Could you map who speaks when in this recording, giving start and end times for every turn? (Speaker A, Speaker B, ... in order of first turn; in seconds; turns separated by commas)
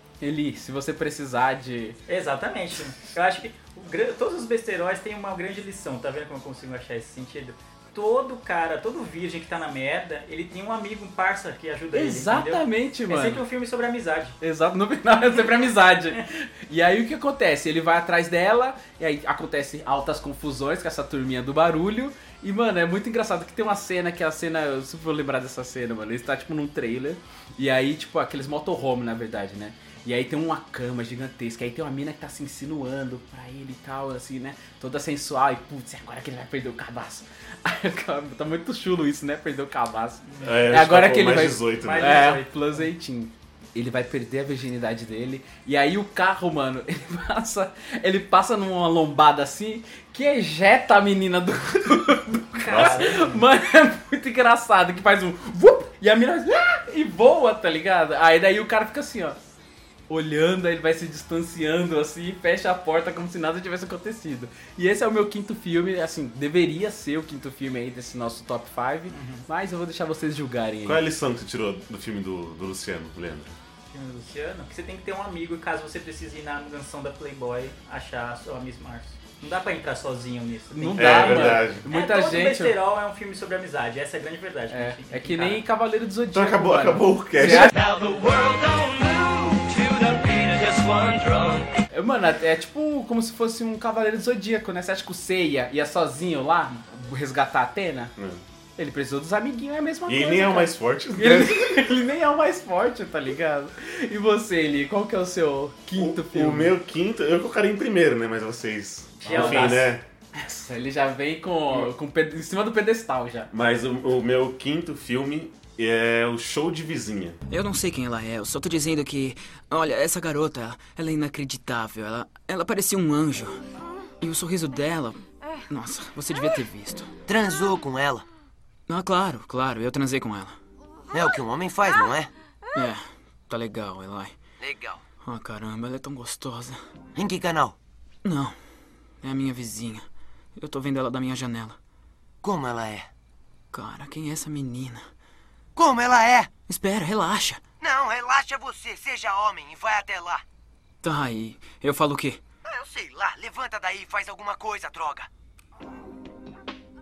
Speaker A: 0.2-2.0, Speaker B: 2.1-14.4, Speaker A: 11.9-13.4, Speaker A: 14.4-59.4, Speaker B: 40.3-40.5, Speaker C: 40.4-42.2, Speaker B: 41.8-42.9, Speaker B: 52.6-53.4, Speaker C: 52.7-53.0, Speaker A: 60.1-71.0, Speaker B: 69.1-69.5, Speaker C: 70.9-73.5, Speaker B: 73.9-85.6, Speaker A: 80.7-82.8, Speaker C: 81.0-81.8, Speaker A: 84.7-87.7, Speaker C: 86.3-87.7, Speaker D: 87.7-91.7, Speaker A: 91.9-98.1, Speaker A: 98.8-106.7, Speaker C: 100.1-101.8, Speaker C: 106.0-110.0, Speaker B: 109.2-109.8, Speaker A: 109.2-109.8, Speaker A: 110.4-113.5, Speaker C: 113.5-117.4, Speaker E: 117.5-123.6, Speaker E: 124.2-127.1, Speaker F: 127.3-128.2, Speaker E: 128.9-130.6, Speaker F: 131.1-132.3, Speaker E: 132.7-134.3, Speaker F: 134.6-135.0, Speaker E: 135.2-136.8, Speaker F: 137.1-137.8, Speaker E: 138.2-138.6, Speaker E: 139.2-140.1, Speaker E: 140.6-141.8, Speaker F: 142.4-143.1, Speaker E: 143.7-145.0, Speaker F: 145.8-146.6, Speaker E: 146.6-147.7, Speaker F: 147.8-150.4, Speaker E: 151.0-152.4, Speaker F: 152.7-155.3